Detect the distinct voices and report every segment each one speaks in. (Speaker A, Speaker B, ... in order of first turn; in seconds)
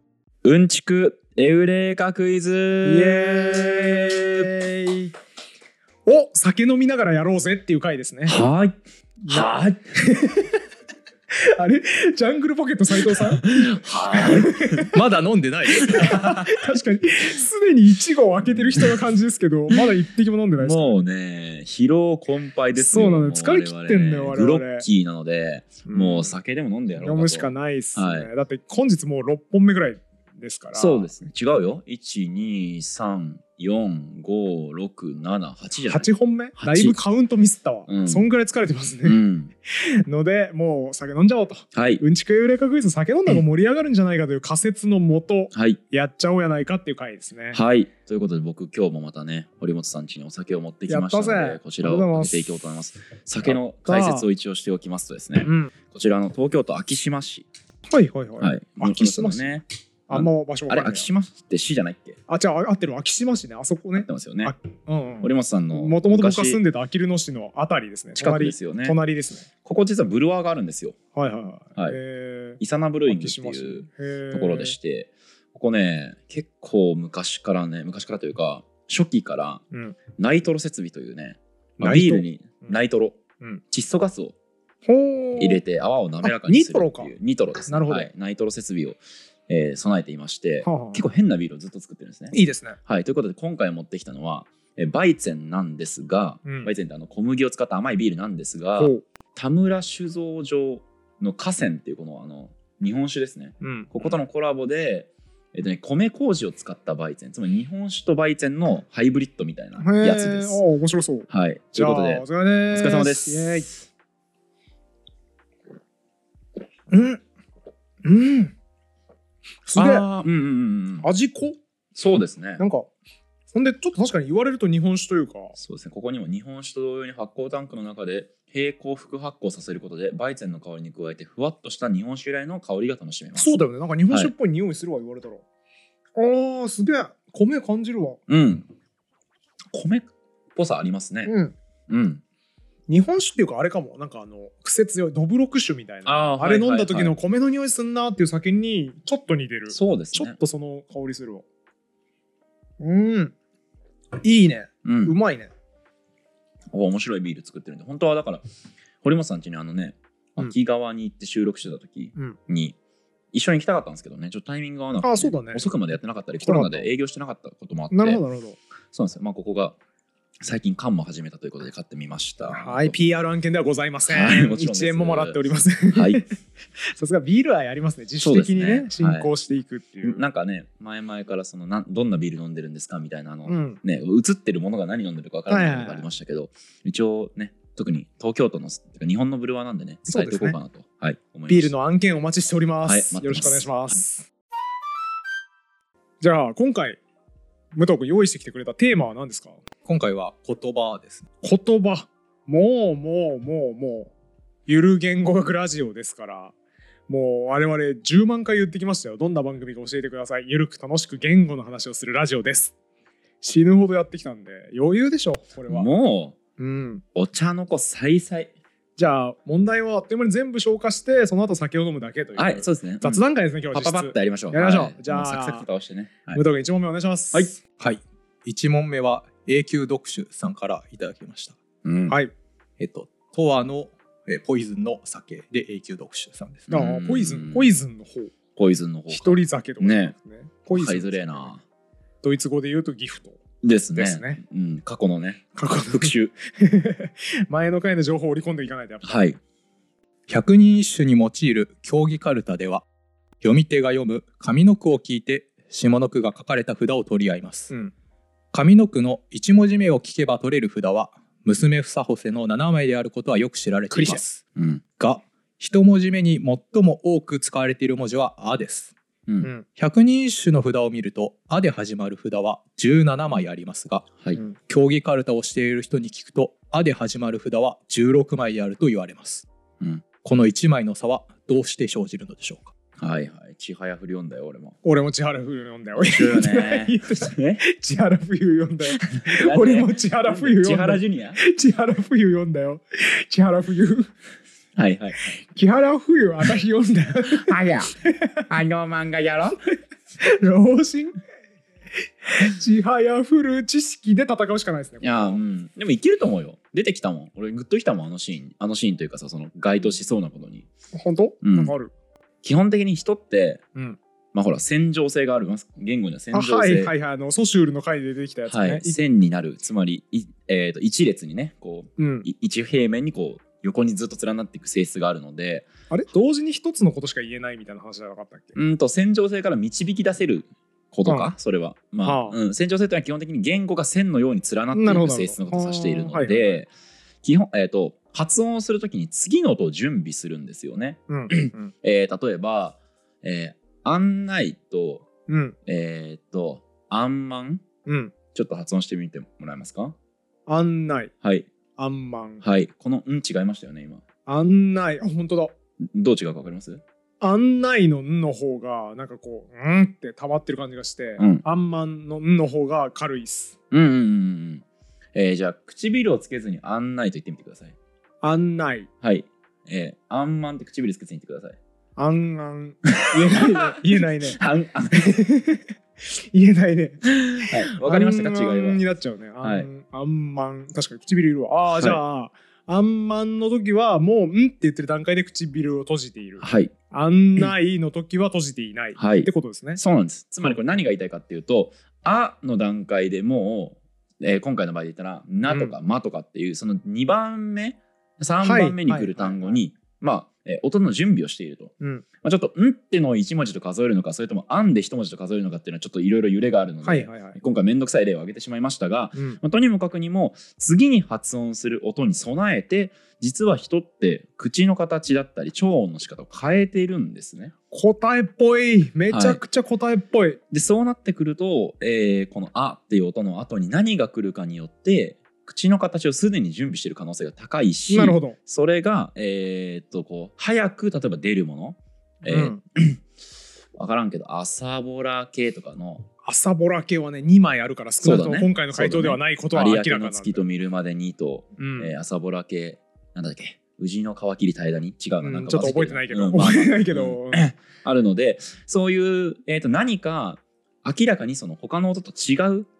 Speaker A: 0.4-4.5, 8.3-8.8, 9.3-9.8, 13.1-14.8, 18.5-18.9, 20.6-28.3, 30.7-37.0, 37.9-38.2, 39.0-39.5, 41.7-42.0, 45.5-45.8, 47.5-57.5, 58.4-62.2, 64.0-64.5, 65.2-66.6, 68.2-69.0, 69.6-71.0, 72.6-79.6, 80.1-83.2, 83.7-84.3, 85.4-110.6, 111.3-113.6, 119.8-121.1, 122.0-122.6, 125.6-133.5, 138.3-138.7, 139.7-141.3, 141.9-142.2, 146.1-147.1, 149.7-150.3, 154.8-155.2, 156.7-158.5, 159.0-162.8, 163.3-168.2, 168.9-169.8, 170.4-172.9, 174.1-175.4, 175.9-176.2, 178.2-179.3, 180.0-191.7, 192.8-194.0, 215.7-216.3, 217.2-218.5, 222.3-223.2, 223.7-226.4, 231.8-232.2, 236.7-237.7, 238.6-240.1, 240.7-241.6, 243.6-246.3, 249.0-249.4, 263.9-264.8, 283.0-284.8, 285.9-287.6, 289.0-291.4, 294.7-295.4, 297.3-297.9, 298.5-299.6, 305.0-310.7, 311.4-311.7, 312.4-313.6, 314.3-316.9, 318.5-325.7, 328.5-336.7, 337.2-345.1, 345.6-347.6, 348.3-349.9, 351.2-351.5, 352.4-354.0, 355.8-356.8, 361.2-361.4, 363.7-367.7, 369.0-371.6, 372.9-375.2, 377.5-378.8, 379.4-379.7, 381.7-382.0, 386.4-386.7, 388.9-417.5, 419.1-419.4, 420.5-433.0, 433.7-436.1, 438.0-452.7
Speaker B: 2.8-5.1, 6.0-8.4, 9.2-10.6, 11.3-14.9, 15.9-21.0, 22.8-24.9, 25.9-26.4, 27.0-31.1, 35.9-47.6, 50.9-52.5, 53.4-54.3, 55.4-55.7, 57.9-59.5, 60.1-61.1, 62.3-69.5, 71.1-74.8, 79.7-80.0, 81.8-82.8, 84.8-85.6, 86.2-87.1, 87.7-88.1, 90.6-91.0, 92.3-92.8, 96.5-96.7, 98.8-99.0, 103.6-103.9, 109.8-113.8, 116.9-117.2, 118.0-118.5, 119.7-120.1, 121.0-121.6, 122.6-122.9, 123.5-125.6, 133.3-135.4, 136.2-138.2, 141.2-141.5, 142.9-151.4, 152.8-153.3, 154.2-155.5, 165.0-165.7, 166.4-166.9, 167.9-168.6, 172.5-176.3, 176.9-180.2, 183.5-183.8, 185.5-186.1, 190.1-190.6, 191.5-194.3, 196.2-197.0, 197.8-199.6, 201.4-204.1, 204.7-206.5, 207.1-212.7, 213.4-215.9, 216.6-217.0, 219.0-225.7, 226.3-227.6, 236.7-238.3, 239.1-241.5, 242.2-243.4, 243.9-244.4, 245.6-249.2, 284.8-294.1, 295.4-298.4, 300.2-301.2, 302.3-305.4, 310.9-311.9, 316.3-319.0, 322.0-322.3, 325.9-328.5, 331.1-331.3, 332.0-332.4, 334.7-336.6, 341.1-341.7, 345.3-345.6, 347.9-348.1, 350.5-351.1, 351.8-352.4, 354.2-355.5, 357.2-363.5, 368.2-368.9, 371.9-374.4, 374.9-389.8, 390.4-390.7, 395.5-395.7, 398.4-399.6, 401.8-402.0, 406.8-407.4, 417.7-420.4, 427.9-428.4, 432.3-432.6, 436.2-440.4, 441.6-441.9, 445.2-447.4
Speaker C: 14.9-16.3, 199.8-201.2, 227.8-231.6, 232.8-236.7, 250.3-252.8, 253.4-257.7, 258.5-264.4, 265.0-268.9, 269.7-279.4, 280.2-282.7